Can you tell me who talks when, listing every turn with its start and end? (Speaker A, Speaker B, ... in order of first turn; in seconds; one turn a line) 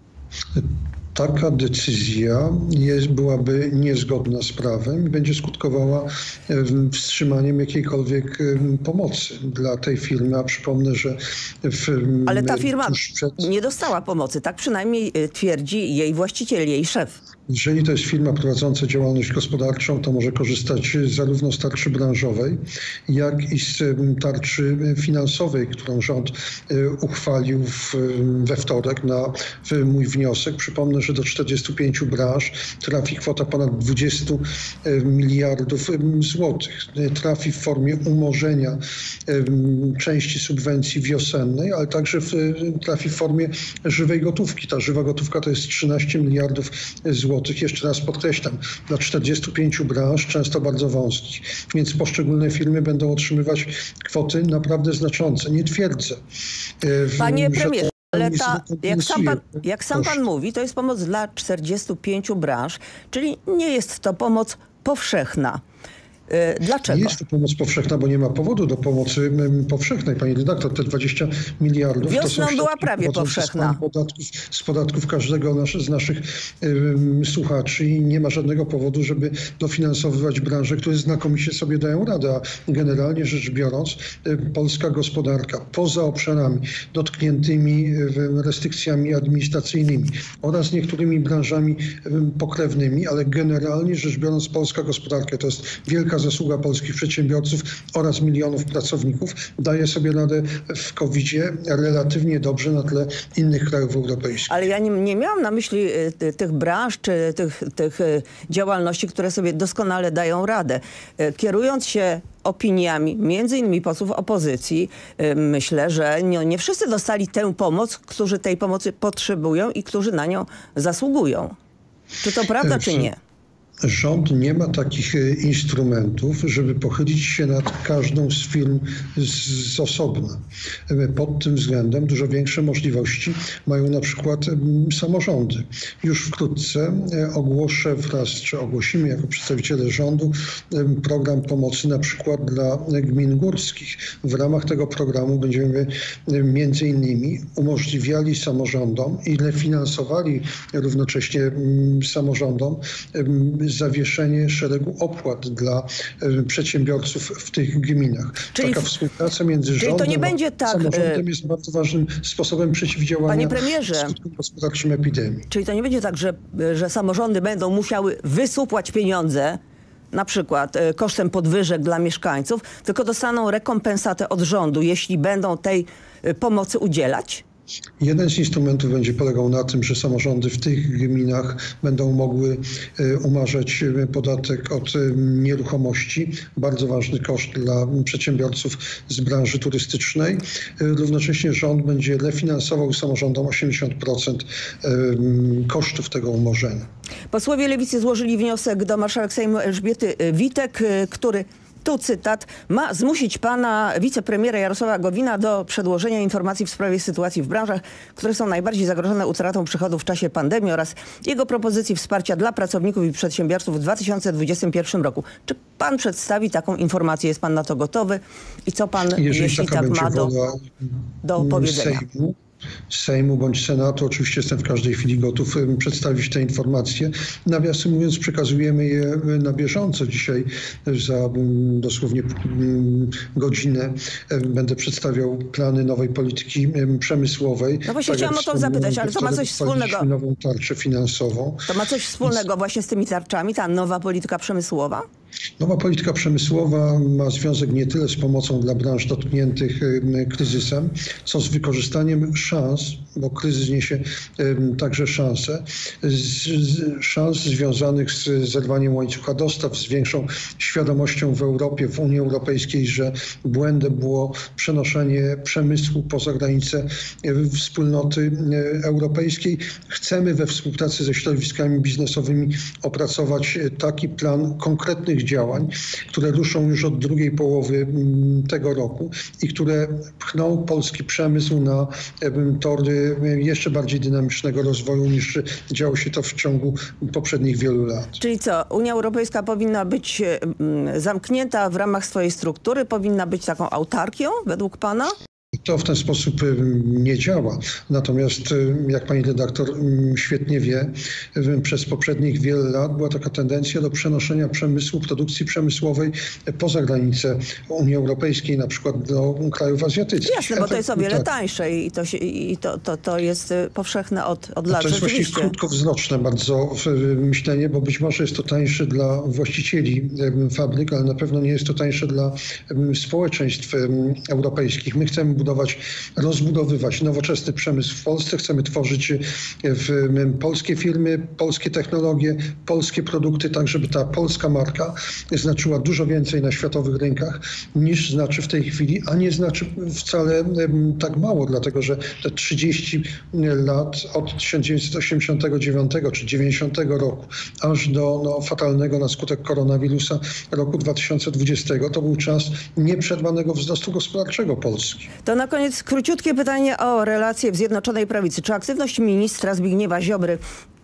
Speaker A: 0.5-13.4
Speaker B: 12.3-17.2
Speaker A: 17.5-56.2
Speaker A: 56.8-60.2
Speaker B: 57.2-65.6
Speaker B: 66.3-67.2
Speaker A: 66.9-104.5
Speaker B: 72.0-73.8
Speaker B: 104.5-121.5
Speaker B: 122.2-123.2
Speaker A: 122.6-123.1
Speaker A: 123.8-165.5
Speaker B: 158.6-158.9
Speaker B: 159.8-161.2
Speaker B: 163.3-164.1
Speaker B: 165.5-169.6
Speaker B: 170.1-177.4
Speaker A: 178.0-196.8
Speaker B: 197.3-220.3
Speaker A: 219.1-222.3
Speaker B: 221.2-222.0
Speaker A: 222.9-241.7
Speaker B: 237.8-240.1
Speaker B: 241.7-245.0
Speaker A: 245.6-288.2
Speaker B: 288.2-295.1
Speaker A: 295.6-311.3
Speaker B: 310.2-315.5
Speaker A: 314.7-355.1
Speaker B: 355.2-360.4